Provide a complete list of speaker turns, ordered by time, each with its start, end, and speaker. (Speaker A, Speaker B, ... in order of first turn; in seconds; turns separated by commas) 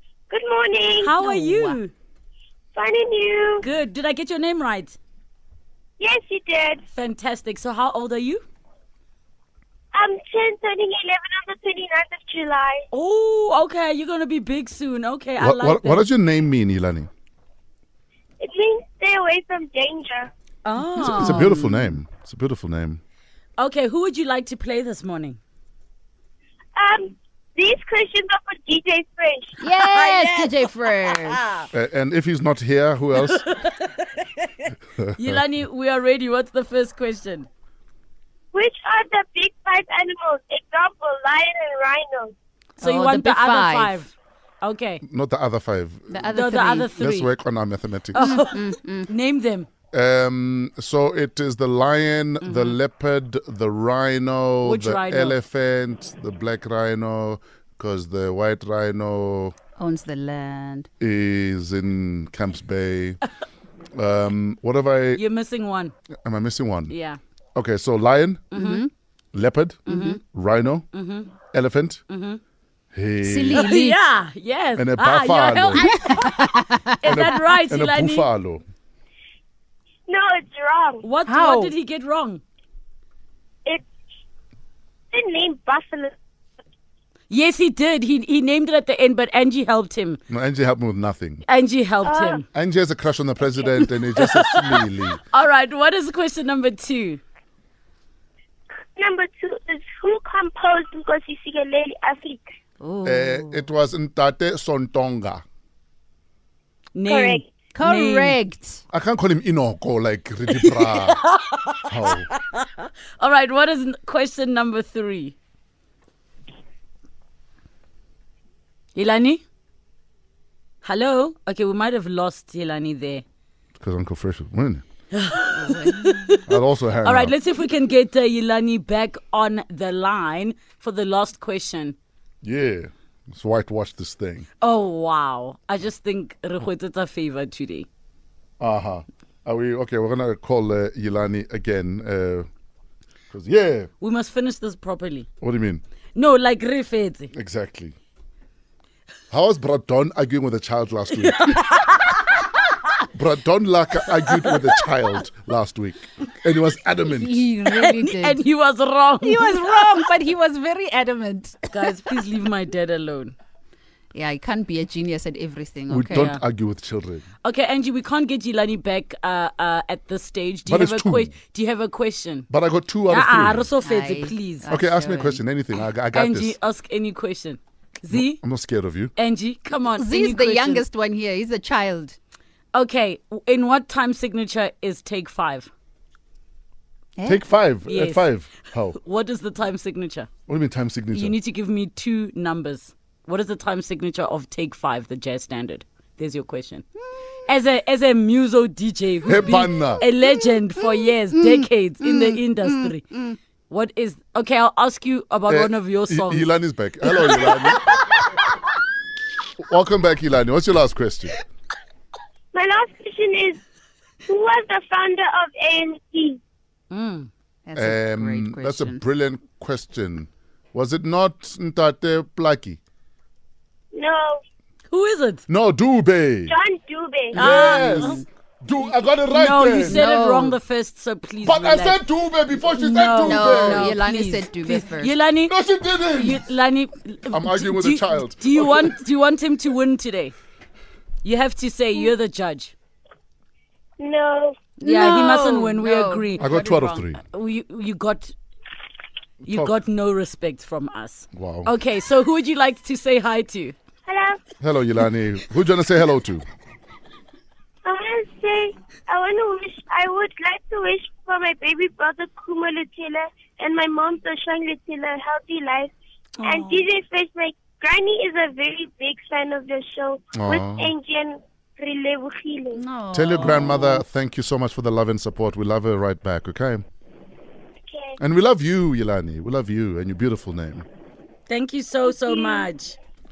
Speaker A: 0.3-1.1, Speaker B: 1.0-1.9, Speaker C: 1.2-1.8, Speaker A: 2.8-3.7, Speaker B: 3.6-5.0, Speaker A: 6.0-6.8, Speaker B: 6.9-8.4, Speaker A: 9.9-12.8, Speaker B: 12.9-16.1, Speaker D: 15.4-17.1, Speaker A: 18.4-20.3, Speaker B: 20.6-21.5, Speaker C: 20.8-22.0, Speaker D: 21.0-23.0, Speaker B: 23.6-25.4, Speaker A: 26.8-29.6, Speaker C: 29.6-31.4, Speaker B: 29.6-31.7, Speaker D: 31.7-33.5, Speaker B: 33.2-37.5, Speaker D: 35.0-35.4, Speaker A: 38.5-42.3, Speaker C: 42.8-44.0, Speaker B: 42.8-45.0, Speaker D: 45.0-46.3, Speaker C: 46.1-47.0, Speaker B: 46.3-47.3, Speaker D: 47.0-48.4, Speaker B: 48.1-49.7, Speaker C: 48.1-49.1, Speaker D: 49.9-59.5, Speaker B: 52.4-52.8, Speaker B: 54.6-55.4, Speaker C: 59.8-60.9, Speaker D: 61.0-63.2, Speaker D: 63.9-65.2, Speaker B: 65.2-65.9, Speaker D: 66.2-66.9, Speaker B: 66.9-67.2, Speaker D: 67.5-68.5, Speaker B: 68.5-68.9, Speaker C: 68.5-68.9, Speaker D: 69.3-70.9, Speaker B: 69.9-70.2, Speaker C: 69.9-70.2, Speaker B: 70.9-71.3, Speaker D: 71.5-72.0, Speaker B: 72.1-72.4, Speaker D: 72.9-73.8, Speaker C: 73.2-74.0, Speaker B: 73.5-78.3, Speaker D: 74.8-76.0, Speaker C: 75.8-77.6, Speaker D: 77.0-78.6, Speaker A: 80.1-81.0, Speaker B: 81.0-82.4, Speaker C: 81.3-81.8, Speaker A: 85.1-86.2, Speaker B: 87.3-90.2, Speaker D: 90.3-91.5, Speaker B: 91.5-92.4, Speaker A: 92.0-92.4, Speaker D: 92.5-95.2, Speaker B: 94.2-97.2, Speaker A: 99.0-102.5, Speaker C: 102.8-103.7, Speaker D: 103.0-105.4, Speaker B: 107.0-108.4, Speaker A: 107.1-107.5, Speaker C: 107.7-108.8, Speaker D: 108.9-111.2, Speaker B: 110.5-115.4, Speaker D: 111.9-112.3, Speaker B: 119.0-119.4, Speaker B: 120.8-123.2, Speaker D: 123.8-124.8, Speaker B: 125.1-132.0, Speaker C: 125.5-126.4, Speaker D: 126.5-127.3, Speaker D: 132.4-134.5, Speaker B: 134.6-137.9, Speaker D: 138.6-142.5, Speaker D: 143.3-143.9, Speaker B: 144.0-145.3, Speaker D: 145.4-145.8, Speaker B: 146.2-147.3, Speaker D: 147.3-148.0, Speaker D: 149.3-151.5, Speaker B: 151.2-152.3, Speaker D: 153.0-157.5, Speaker C: 157.1-158.4, Speaker B: 157.7-160.1, Speaker C: 159.2-161.9, Speaker B: 161.7-163.4, Speaker C: 164.1-166.4, Speaker D: 165.9-167.2, Speaker B: 166.1-166.4, Speaker B: 167.4-172.5, Speaker D: 170.7-171.3, Speaker D: 172.5-173.7, Speaker B: 173.1-174.7, Speaker C: 173.8-175.4, Speaker D: 174.7-176.6, Speaker B: 176.1-178.4, Speaker D: 178.1-179.1, Speaker B: 179.2-180.8, Speaker C: 180.0-182.2, Speaker B: 182.7-185.7, Speaker C: 187.2-187.4, Speaker D: 187.2-189.0, Speaker B: 187.9-188.3, Speaker B: 188.9-190.3, Speaker D: 190.5-191.4, Speaker B: 191.1-196.8, Speaker B: 197.5-206.5, Speaker D: 199.2-200.1, Speaker C: 201.3-202.9, Speaker D: 205.5-208.3, Speaker B: 207.1-208.3, Speaker D: 209.6-211.4, Speaker A: 212.5-213.6, Speaker A: 214.3-216.4, Speaker B: 216.9-217.3, Speaker C: 217.7-219.0, Speaker D: 217.8-222.8, Speaker A: 223.9-224.4, Speaker B: 224.9-225.4, Speaker D: 225.5-226.6, Speaker A: 226.5-227.7, Speaker D: 227.3-230.1, Speaker B: 227.3-228.2, Speaker C: 227.9-228.2, Speaker B: 229.3-232.0, Speaker C: 229.8-230.6, Speaker D: 231.4-234.0, Speaker B: 232.7-235.6, Speaker C: 233.2-235.2, Speaker D: 235.5-236.4, Speaker B: 236.1-240.3, Speaker D: 237.3-239.0, Speaker B: 241.2-242.7, Speaker A: 244.0-245.3, Speaker C: 244.8-246.4, Speaker B: 244.8-248.3, Speaker D: 246.4-247.2, Speaker D: 249.4-249.7, Speaker B: 249.4-253.8, Speaker D: 251.3-251.7, Speaker A: 254.1-254.4, Speaker D: 254.6-256.4, Speaker A: 257.8-272.8, Speaker D: 270.4-270.9, Speaker C: 272.7-274.1, Speaker D: 273.1-276.8, Speaker A: 277.9-278.2, Speaker D: 278.2-280.9, Speaker B: 281.5-283.0, Speaker A: 282.1-282.7